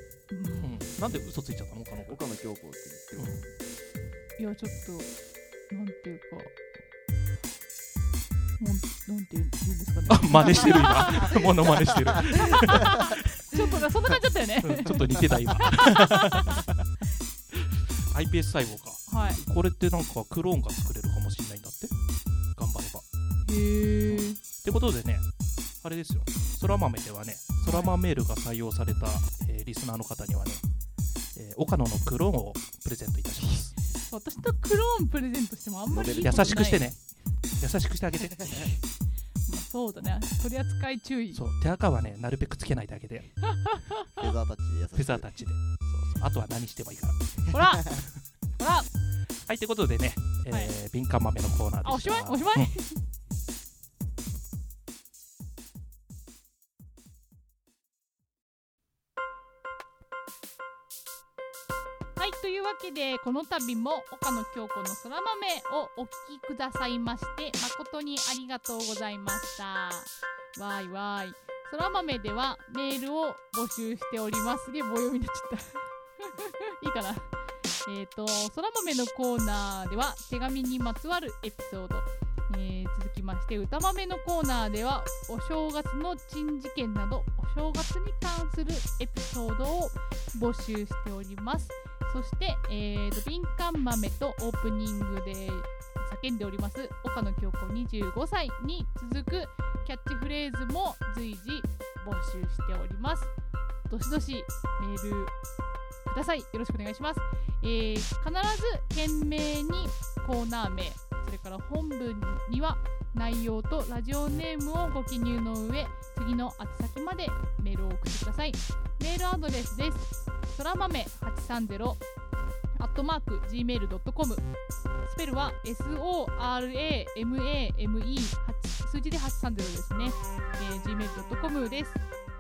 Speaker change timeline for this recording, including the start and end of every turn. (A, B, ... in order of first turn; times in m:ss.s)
0:00.3-0:00.8 A
0:00.6-0:02.2 B
0:02.1-0:03.4 C
0:03.2-0:03.4 B
0:04.4-0:05.1 A
0:05.7-0:06.5 A
0:08.6-0:11.4 A
0:10.1-0:13.3 B
0:11.6-0:12.8 C
0:12.2-0:16.7 A
0:14.6-0:16.8 B
0:17.5-0:21.9 B
0:19.1-0:19.4 A
0:22.6-0:23.0 B
0:23.4-0:24.4 A
0:24.1-0:25.2 B
0:25.8-0:30.6 B
0:27.6-0:27.9 A
0:31.4-0:33.8 B
0:34.0-0:36.9 A
0:35.9-0:36.4 C
0:36.1-0:37.0 B
0:37.6-0:38.7 B
0:39.5-0:41.4 A
0:41.3-0:43.3 B
0:43.6-0:44.1 A
0:44.2-0:45.3 C
0:45.0-0:47.4 B
0:47.5-0:48.0 A
0:48.6-0:48.9 A
0:49.5-0:52.7 B
0:50.5-0:50.7 A
0:51.8-0:53.0 A
1:02.2-1:17.3 A
1:17.8-1:43.3 A
1:43.9-1:45.4 A
1:46.1-2:02.0 A
2:02.8-2:04.5 A
2:05.0-2:12.1 A